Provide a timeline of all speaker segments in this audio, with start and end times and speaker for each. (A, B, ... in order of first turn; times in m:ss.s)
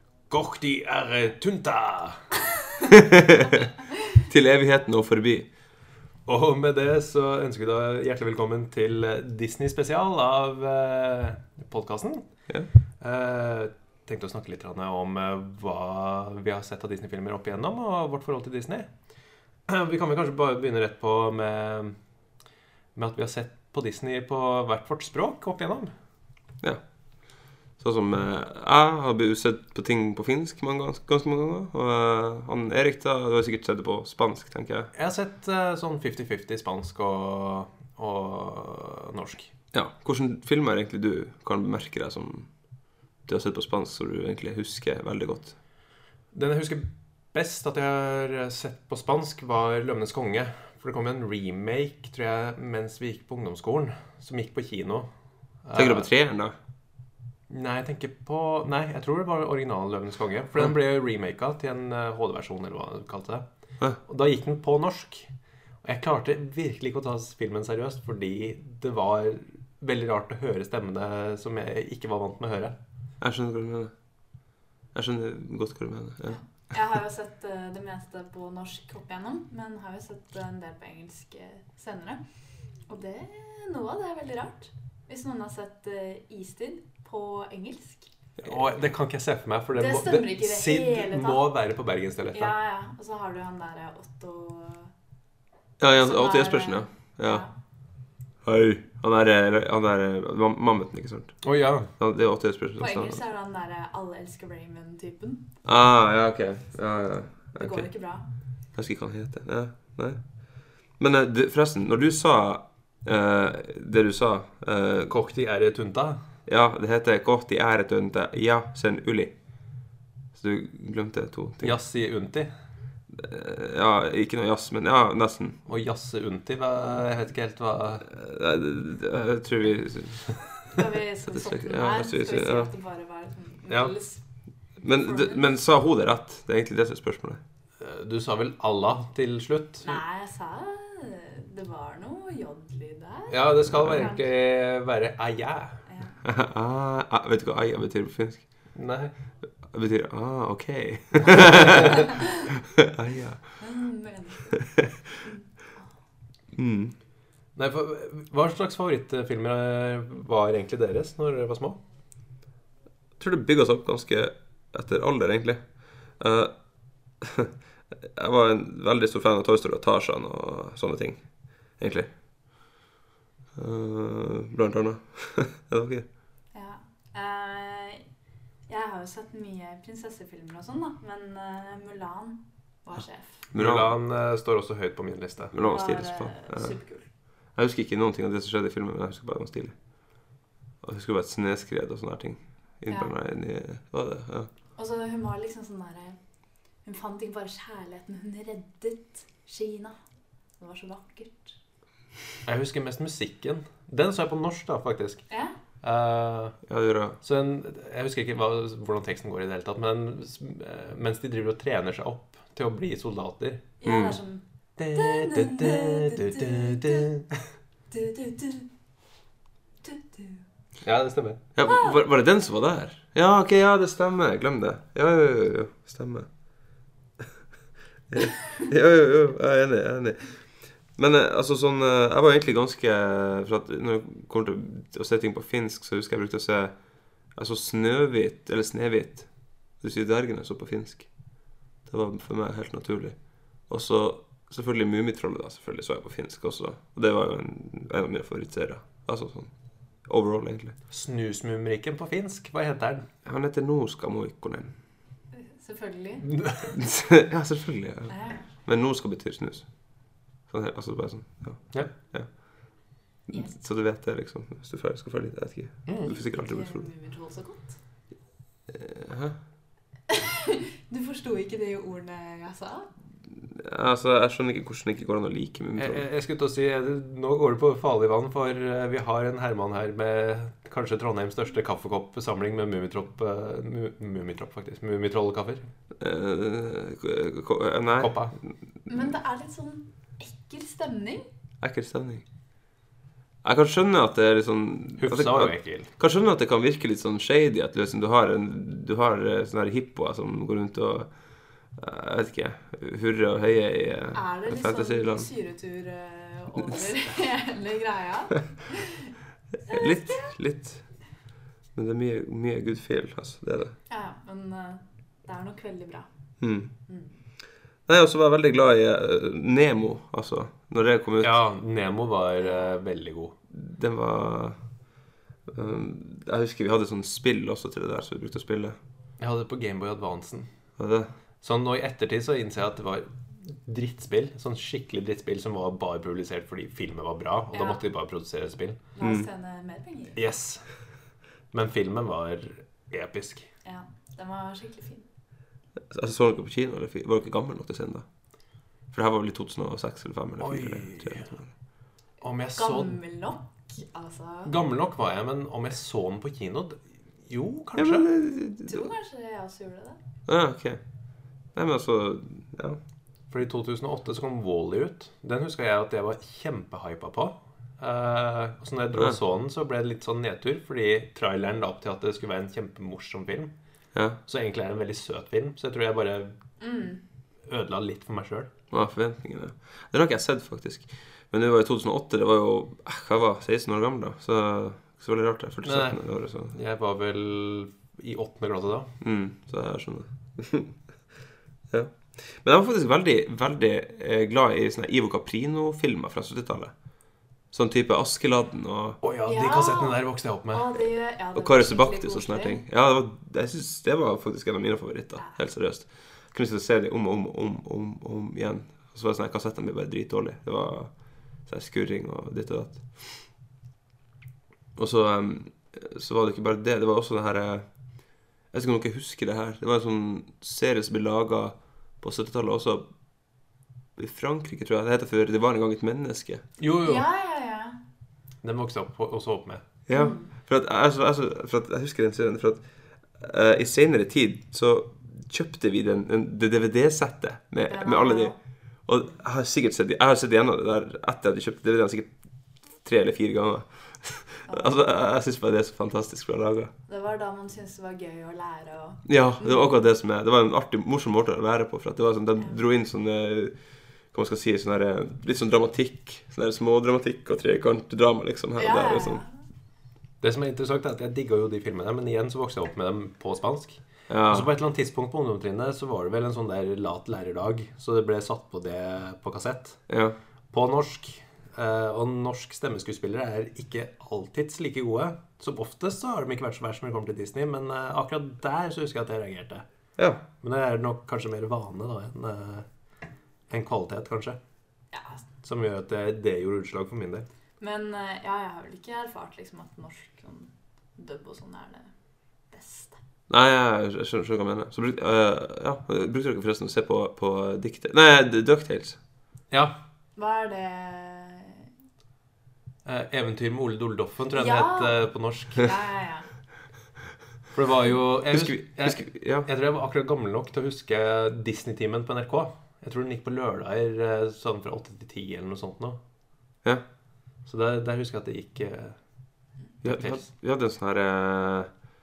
0:00.3-0:02.2 A
0:02.9-0:03.7 B
0:04.2-0:05.5 B
0:06.2-0:12.2 A
0:13.0-0:18.9 A
0:19.7-0:22.0 A
0:22.9-0:25.9 A
0:27.8-0:34.9 B
0:34.9-0:39.5 A
0:39.7-0:42.5 B
0:43.2-0:45.6 B
0:46.3-0:55.1 A
0:55.6-0:56.1 A
0:55.7-0:56.5 B
0:57.5-1:03.4 A
1:04.0-1:05.3 A
1:05.8-1:12.8 A
1:13.2-1:13.9 B
1:14.9-1:16.4 B
1:16.3-1:22.2 C
1:22.9-1:28.1 C
1:28.4-1:32.5 A
1:29.8-1:31.4 C
1:32.3-1:34.9 C
1:35.8-1:37.4 B
1:35.9-1:37.5 C
1:38.4-1:41.4 B
1:41.4-1:41.9 A
1:42.0-1:43.2 B
1:42.8-1:45.5 C
1:45.6-1:47.9 B
1:47.6-1:48.3 C
1:48.7-1:50.2 B
1:51.0-1:55.1 B
1:55.1-1:56.2 A
1:56.5-1:59.3 B
2:00.3-2:01.8 B
2:01.6-2:02.5 A
2:03.1-2:05.6 B
2:05.7-2:08.1 A
2:08.1-2:10.3 B
2:10.7-2:14.2 C
2:11.2-2:12.7 B
2:14.8-2:17.4 B
2:14.8-2:15.5 C
2:17.8-2:20.0 A
2:19.8-2:24.2 C
2:23.3-2:25.8 A
2:25.9-2:26.2 C
2:26.2-2:28.4 B
2:28.8-2:29.1 A
2:29.6-2:33.4 B
2:33.6-2:34.6 C
2:35.2-2:35.8 C
2:36.5-2:36.9 B
2:37.6-2:41.8 A
2:43.2-2:45.7 B
2:46.2-2:46.5 B
2:47.2-2:51.2 B
2:51.8-2:52.1 B
2:53.5-2:56.0 B
2:56.5-2:58.0 C
2:58.7-3:03.4 C
3:03.5-3:03.9 B
3:03.5-3:05.5 A
3:05.5-3:06.8 B
3:05.6-3:07.1 C
3:07.5-3:09.7 B
3:10.8-3:14.5 B
3:12.9-3:13.1 C
3:14.8-3:16.2 C
3:16.8-3:20.0 C
3:20.6-3:21.6 C
3:22.4-3:25.2 A
3:25.8-3:26.6 A
3:26.7-3:27.2 B
3:27.2-3:33.6 A
3:33.8-3:37.1 C
3:33.8-3:34.2 B
3:34.8-3:37.3 A
3:37.9-3:38.7 C
3:39.8-3:40.4 C
3:40.8-3:41.4 A
3:41.6-3:46.3 B
3:41.6-3:42.0 C
3:48.1-3:56.8 B
3:57.3-3:59.3 B
3:59.8-4:01.1 B
4:01.9-4:03.2 B
4:03.7-4:09.5 B
4:10.0-4:10.8 B
4:10.9-4:13.1 A
4:13.2-4:14.7 B
4:15.3-4:16.4 C
4:16.2-4:16.7 A
4:16.7-4:19.7 B
4:18.1-4:18.4 C
4:20.5-4:22.3 B
4:23.3-4:26.8 B
4:26.0-4:27.8 C
4:28.7-4:29.4 B
4:30.1-4:32.9 C
4:33.4-4:36.0 B
4:35.8-4:45.7 A
4:46.0-4:48.2 B
4:48.0-4:48.3 A
4:48.9-4:51.2 C
4:51.6-4:52.2 B
4:53.4-5:01.1 B
4:55.0-4:55.9 A
5:01.7-5:05.3 B
5:04.1-5:09.1 C
5:09.7-5:10.8 B
5:09.7-5:10.3 C
5:11.7-5:13.7 B
5:13.9-5:16.1 C
5:16.4-5:16.7 B
5:16.9-5:17.1 C
5:17.9-5:21.4 B
5:21.2-5:23.3 A
5:22.4-5:22.7 C
5:23.5-5:24.6 B
5:25.5-5:28.8 B
5:29.2-5:30.5 A
5:30.8-5:31.1 B
5:31.4-5:38.8 A
5:37.5-5:37.8 C
5:39.0-5:40.2 C
5:39.0-5:39.3 B
5:40.2-5:40.6 A
5:41.5-5:43.5 A
5:43.6-5:45.0 C
5:45.9-5:48.0 B
5:48.9-5:51.5 B
5:50.4-5:51.3 A
5:52.2-5:53.0 A
5:52.6-5:54.5 C
5:54.4-5:58.1 A
5:57.8-5:58.9 B
5:58.7-6:00.0 C
6:00.3-6:00.8 B
6:01.5-6:02.8 B
6:03.3-6:13.5 A
6:13.9-6:14.2 B
6:14.2-6:16.3 A
6:16.6-6:17.0 C
6:17.5-6:18.5 A
6:18.7-6:26.5 B
6:25.6-6:28.9 A
6:29.0-6:30.8 B
6:31.7-6:36.7 B
6:37.5-6:39.0 B
6:39.0-6:40.7 A
6:39.2-6:42.6 C
6:41.3-6:50.9 B
6:51.4-6:53.2 B
6:54.8-6:57.7 B
6:58.5-7:02.9 B
7:04.0-7:06.4 B
7:06.6-7:07.0 A
7:06.8-7:07.8 C
7:08.4-7:09.6 A
7:09.9-7:18.3 B
7:09.9-7:10.3 C
7:17.7-7:18.4 C
7:18.8-7:22.1 B
7:22.7-7:26.7 B
7:24.5-7:24.8 C
7:26.9-7:29.8 C
7:29.0-7:33.6 B
7:34.1-7:39.2 B
7:38.6-7:39.3 C
7:40.2-7:49.8 A
7:44.1-7:44.5 B
7:49.9-7:50.2 B
7:50.5-7:59.6 A
8:00.0-8:00.2 B
8:00.4-8:02.6 A
8:03.5-8:04.4 A
8:04.9-8:05.2 C
8:05.4-8:07.2 A
8:07.6-8:11.9 C
8:12.5-8:13.0 C
8:13.3-8:19.0 B
8:20.2-8:21.7 C
8:22.8-8:25.7 A
8:24.3-8:25.0 C
8:25.5-8:26.3 C
8:27.5-8:36.0 A
8:28.3-8:29.5 B
8:37.4-8:39.0 A
8:39.8-8:41.7 B
8:39.8-8:40.2 A